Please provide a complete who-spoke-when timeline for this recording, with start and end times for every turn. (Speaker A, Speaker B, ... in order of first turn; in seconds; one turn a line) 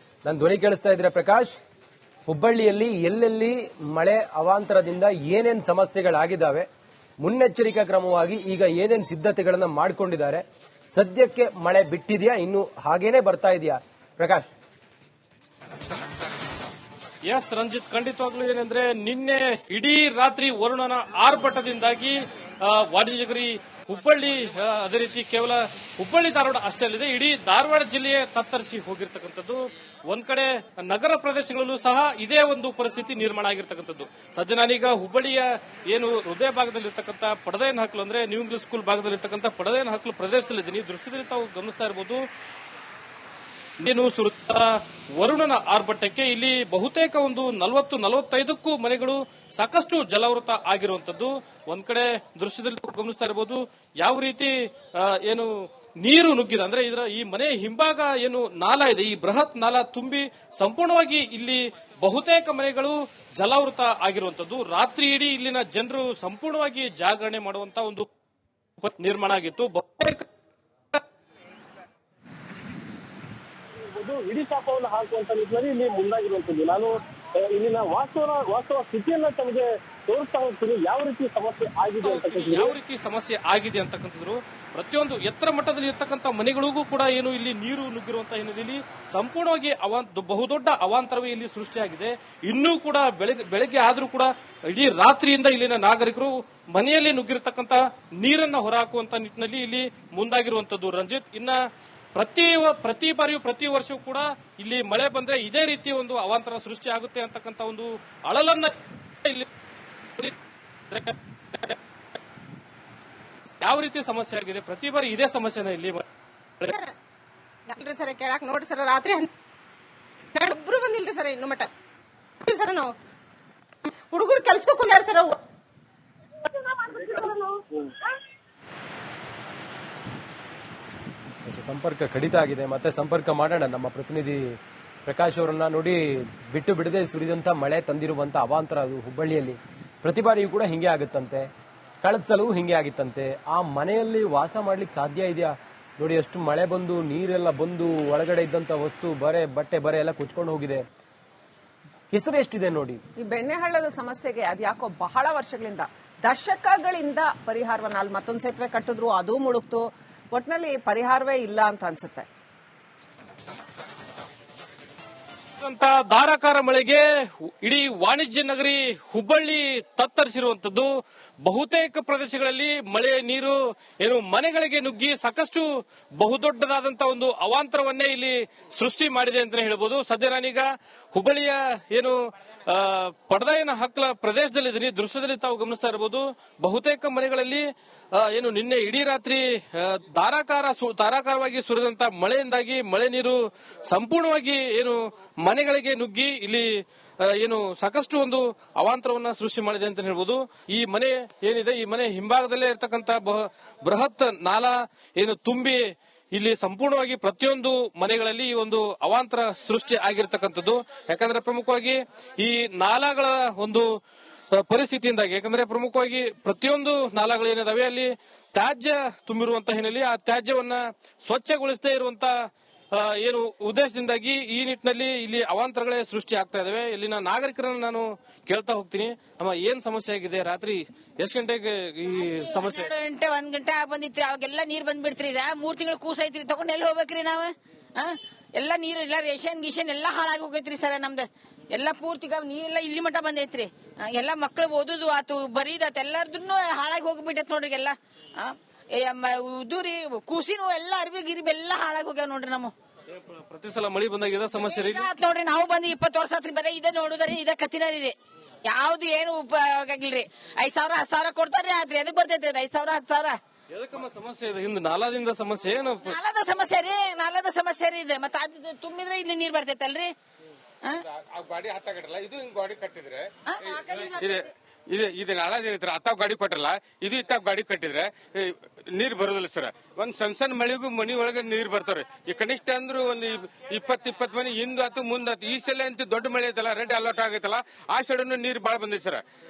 Speaker A: 0.2-1.6
Speaker A: 2.3-6.7
Speaker A: 7.2-10.4
Speaker A: 10.9-14.5
Speaker B: 17.3-42.2
Speaker B: 43.8-55.5
Speaker B: 56.0-68.1
Speaker B: 68.8-70.2
Speaker C: 74.0-82.7
Speaker B: 82.0-101.6
Speaker B: 102.1-109.5
Speaker B: 110.9-111.8
Speaker B: 113.6-116.0
Speaker D: 116.7-116.9
Speaker D: 117.7-119.3
Speaker D: 120.3-121.7
Speaker D: 122.4-122.9
Speaker D: 124.1-125.4
Speaker D: 126.8-127.6
Speaker A: 131.4-134.5
Speaker A: 135.1-141.5
Speaker A: 142.0-150.8
Speaker A: 152.1-153.0
Speaker E: 153.2-162.3
Speaker B: 165.6-170.9
Speaker B: 171.4-175.7
Speaker B: 176.2-182.2
Speaker B: 182.7-187.6
Speaker B: 188.1-196.7
Speaker B: 197.2-205.8
Speaker B: 206.3-213.8
Speaker B: 214.5-222.3
Speaker B: 222.9-232.9
Speaker F: 232.2-252.7
Speaker B: 253.1-255.1
Speaker F: 254.6-263.4
Speaker B: 263.7-266.2
Speaker F: 266.0-270.1
Speaker G: 271.1-273.3
Speaker F: 273.4-274.5
Speaker G: 274.0-289.2